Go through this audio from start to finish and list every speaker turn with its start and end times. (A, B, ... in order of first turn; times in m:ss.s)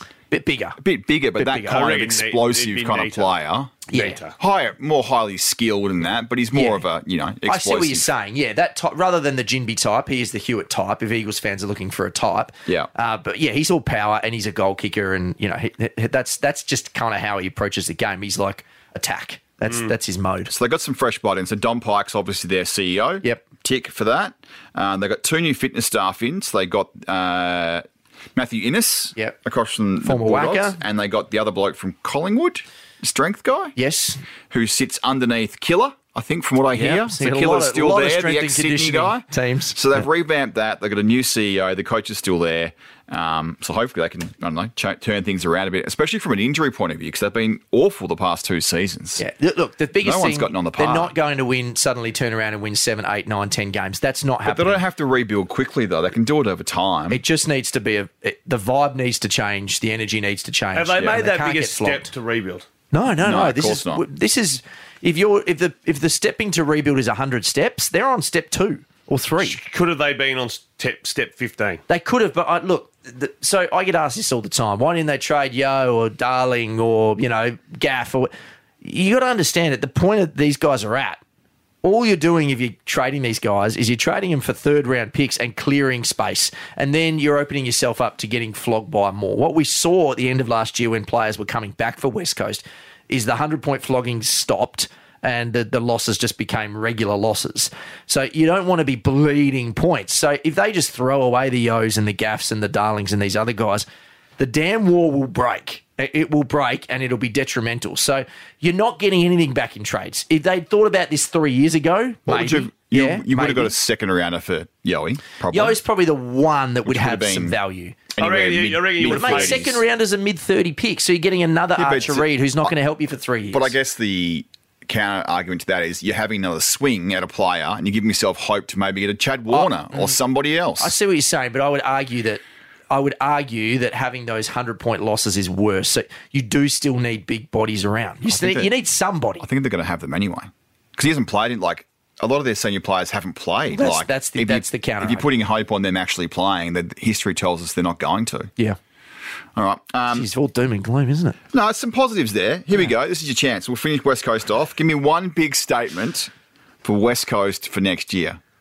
0:00.3-0:00.8 A
0:00.8-0:03.8 B
0:01.4-0:03.4 C
0:03.9-0:04.2 A
0:03.9-0:04.4 C
0:04.4-0:08.1 B
0:06.5-0:06.8 A
0:07.4-0:20.5 A
0:20.5-0:27.8 B
0:28.4-0:33.8 B
0:30.0-0:30.8 A
0:33.8-0:34.2 A
0:34.5-0:49.2 B
0:36.7-0:39.8 A
0:49.2-0:54.8 A
0:50.0-0:51.1 B
0:54.4-0:57.2 B
0:57.1-1:02.1 A
1:00.7-1:02.7 C
1:02.9-1:09.6 A
1:03.2-1:04.0 B
1:09.4-1:11.8 C
1:11.9-1:21.2 A
1:21.8-1:43.8 A
1:44.4-1:53.7 A
1:52.3-1:55.8 B
1:55.5-1:58.0 A
1:56.9-1:57.6 B
1:58.1-1:59.8 B
1:58.2-1:59.8 C
1:59.0-2:03.7 A
2:01.8-2:02.7 B
2:03.5-2:11.0 B
2:09.5-2:10.2 A
2:10.8-2:19.5 A
2:18.2-2:18.7 B
2:19.4-2:28.5 B
2:23.7-2:25.3 A
2:29.6-2:30.3 B
2:30.1-2:31.4 A
2:31.5-2:36.3 B
2:36.8-2:38.4 B